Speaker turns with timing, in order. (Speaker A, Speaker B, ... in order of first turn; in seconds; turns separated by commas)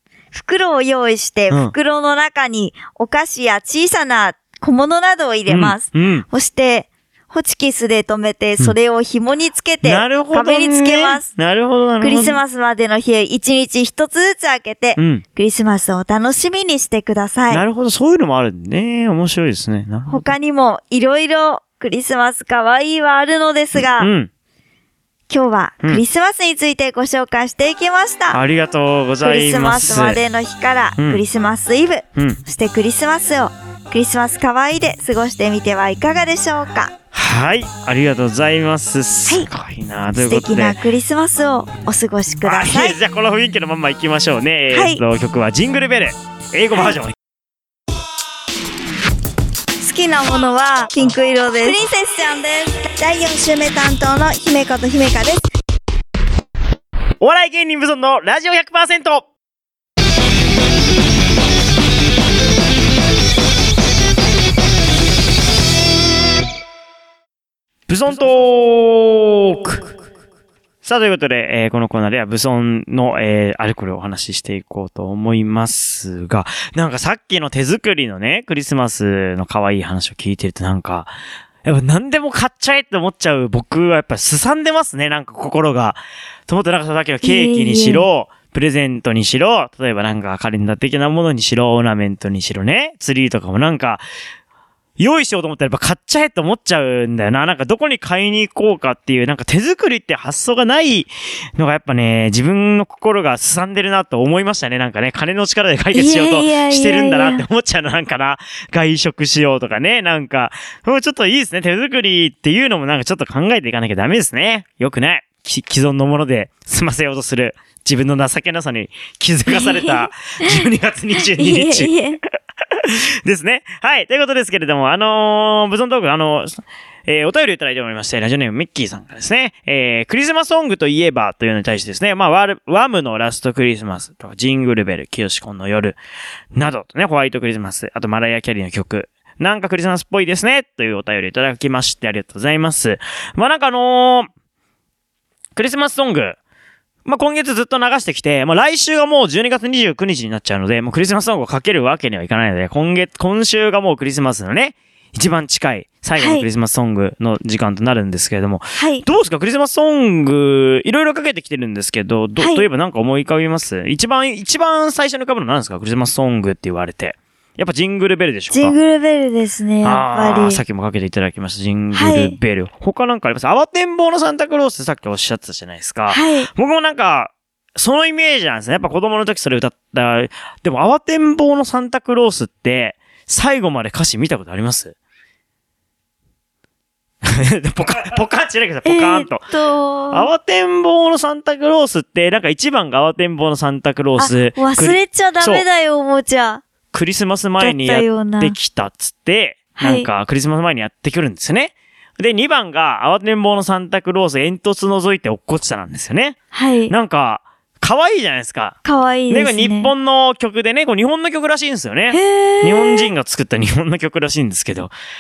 Speaker A: 0.3-11.3, Speaker B: 5.5-6.2, Speaker B: 9.8-12.4, Speaker A: 12.0-17.6, Speaker B: 15.0-15.2, Speaker B: 17.5-20.3, Speaker A: 20.1-24.1, Speaker B: 23.8-24.3, Speaker A: 25.3-28.4, Speaker B: 28.3-30.2, Speaker A: 29.2-36.9, Speaker B: 37.1-40.8, Speaker A: 40.2-43.0, Speaker B: 42.4-47.2, Speaker A: 44.7-45.0, Speaker A: 49.8-55.5, Speaker B: 57.2-59.3, Speaker B: 67.9-69.9, Speaker B: 70.8-81.1, Speaker B: 81.6-94.0, Speaker A: 87.2-88.1, Speaker B: 95.0-121.9, Speaker A: 105.9-107.5, Speaker A: 119.5-120.5, Speaker A: 121.2-122.2, Speaker B: 122.8-136.0, Speaker B: 136.5-144.3, Speaker B: 145.6-146.4, Speaker B: 147.1-168.8, Speaker A: 156.2-156.5, Speaker A: 158.8-159.1, Speaker A: 162.4-162.7, Speaker A: 168.5-170.6, Speaker B: 169.8-184.9, Speaker A: 171.9-172.4, Speaker A: 176.1-176.5, Speaker B: 187.2-189.5, Speaker A: 188.8-190.3, Speaker B: 190.1-195.7, Speaker A: 194.2-196.6, Speaker B: 196.9-206.4, Speaker A: 197.6-198.6, Speaker A: 199.8-200.1, Speaker A: 206.5-206.9, Speaker B: 206.9-208.8, Speaker A: 208.8-209.9, Speaker B: 209.3-214.9, Speaker A: 212.1-213.1